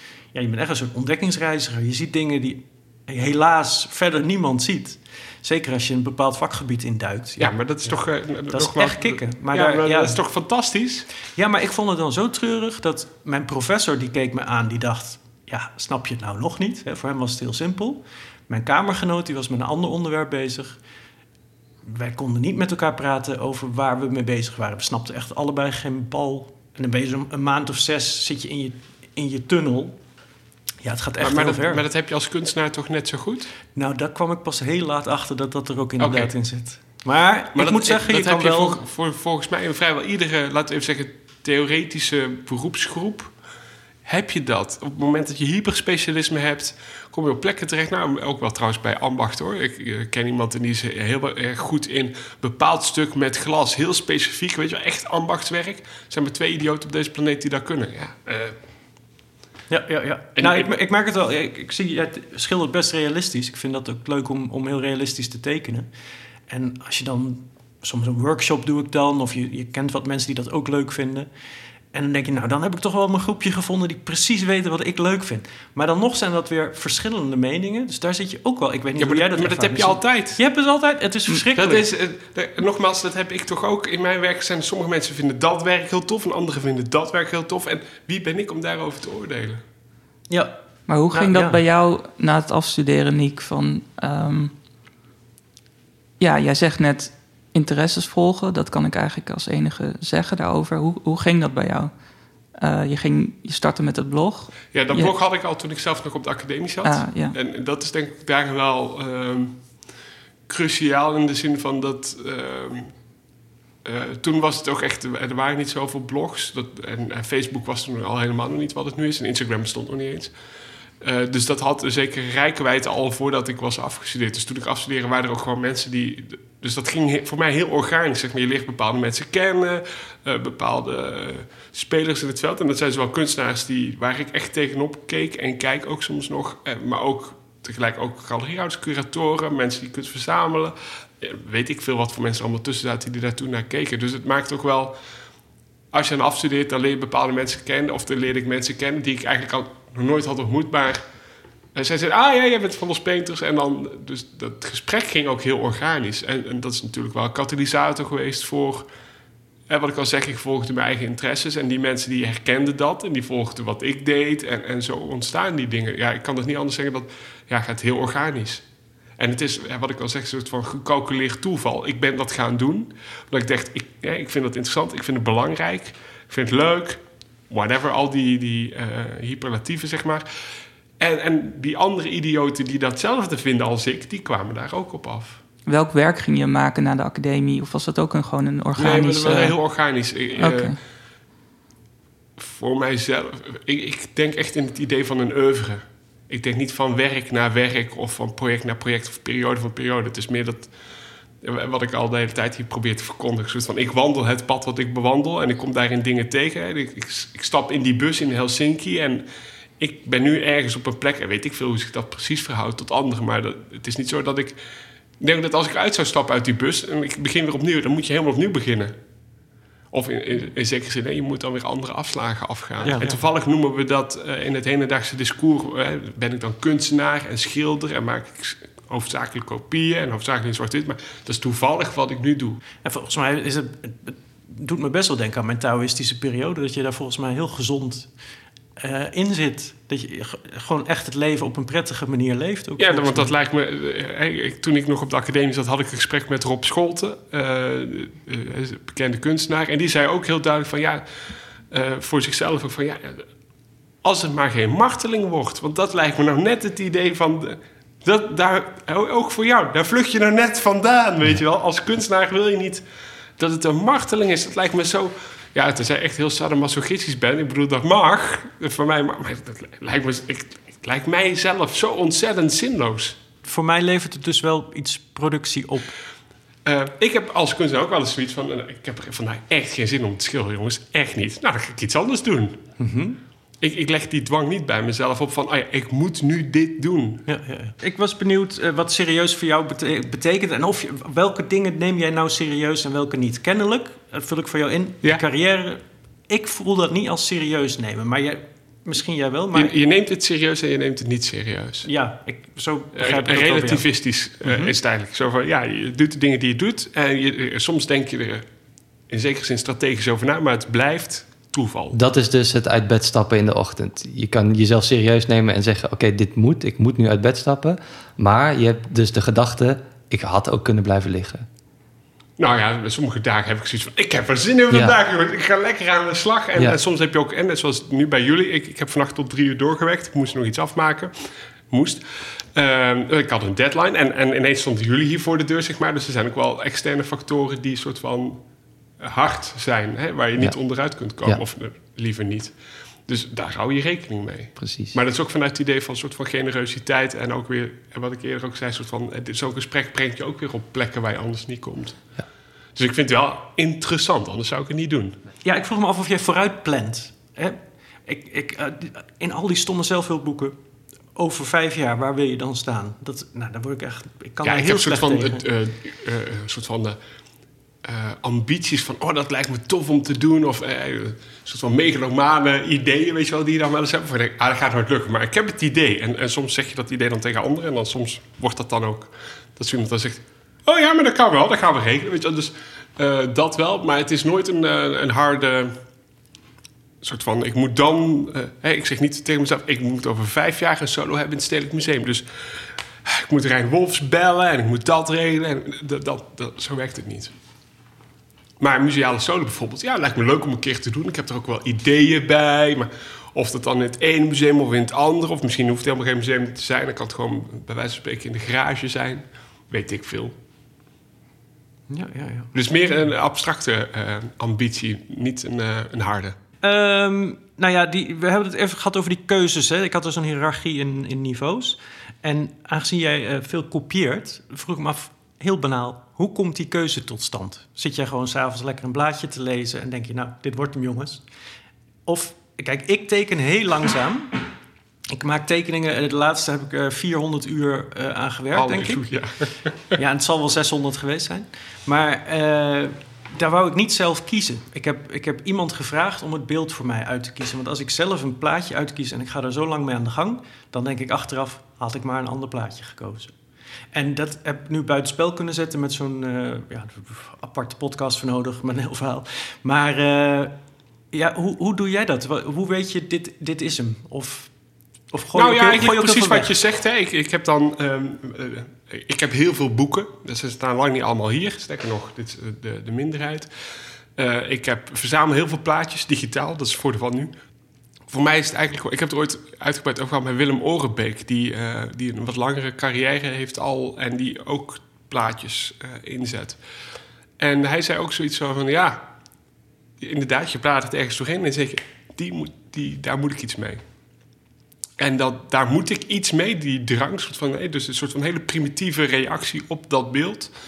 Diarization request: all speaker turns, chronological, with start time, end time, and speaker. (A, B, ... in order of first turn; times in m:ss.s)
0:00.3-0:07.5 A
0:07.4-0:11.1 B
0:08.5-0:10.2 A
0:11.4-0:20.8 A
0:21.8-0:30.0 A
0:30.8-0:31.8 A
0:31.2-0:33.5 B
0:33.8-0:38.8 A
0:36.0-0:36.3 B
0:37.6-0:43.3 B
0:44.1-0:58.6 B
0:59.7-1:05.9 A
1:00.4-1:00.7 B
1:06.5-1:11.3 A
1:11.9-1:21.9 A
1:19.0-1:20.4 B
1:21.6-1:29.6 B
1:30.9-1:34.5 C
1:31.1-1:31.6 A
1:36.2-1:41.9 C
1:42.6-1:45.1 C
1:44.7-1:49.6 B
1:46.8-1:47.4 C
1:50.5-1:52.9 B
1:53.8-2:00.3 B
2:01.0-2:25.0 B
2:25.9-2:31.0 B
2:31.8-2:38.9 B
2:39.7-2:48.6 B
2:49.2-3:00.3 B
3:01.0-3:05.4 B
3:05.7-3:09.6 C
3:08.8-3:10.8 B
3:10.4-3:10.8 C
3:12.4-3:20.7 B
3:21.4-3:29.2 B
3:29.8-3:34.6 B
3:35.2-3:38.9 B
3:39.9-3:52.6 B
3:42.8-3:43.2 A
3:52.8-3:58.1 A
3:58.8-4:03.3 A
4:02.8-4:11.0 B
4:11.7-4:13.2 B
4:14.0-4:22.8 B
4:23.4-4:33.2 B
4:33.4-4:35.9 A
4:36.7-4:42.6 B
4:42.8-4:43.2 A
4:43.6-4:47.3 B
4:47.3-4:59.8 A
4:59.5-5:01.9 B
5:01.8-5:03.8 A
5:03.0-5:08.4 B
5:04.4-5:04.7 A
5:09.1-5:12.0 B
5:11.9-5:21.5 D
5:22.4-5:31.1 B
5:31.7-5:32.0 B
5:32.6-5:38.4 B
5:39.0-5:42.5 B
5:43.1-5:52.0 B
5:44.6-5:45.0 D
5:52.8-5:55.2 B
5:55.4-6:00.6 A
6:01.2-6:05.4 A
6:04.4-6:07.0 B
6:07.8-6:25.8 B
6:27.0-6:32.3 B
6:33.0-6:37.3 B
6:38.6-6:50.4 B
6:51.9-6:52.5 A
6:52.5-6:56.4 B
6:56.6-7:11.2 A
7:12.1-7:14.4 A
7:15.1-7:19.2 A
7:18.6-7:20.0 B
7:20.0-7:33.4 A
7:33.9-7:40.6 A
7:41.1-7:44.5 A
7:45.1-7:46.5 A
7:45.3-7:53.5 B
7:54.2-7:57.3 B
7:58.1-8:06.6 B
8:07.4-8:09.1 B
8:10.0-8:13.8 B
8:15.0-8:20.5 B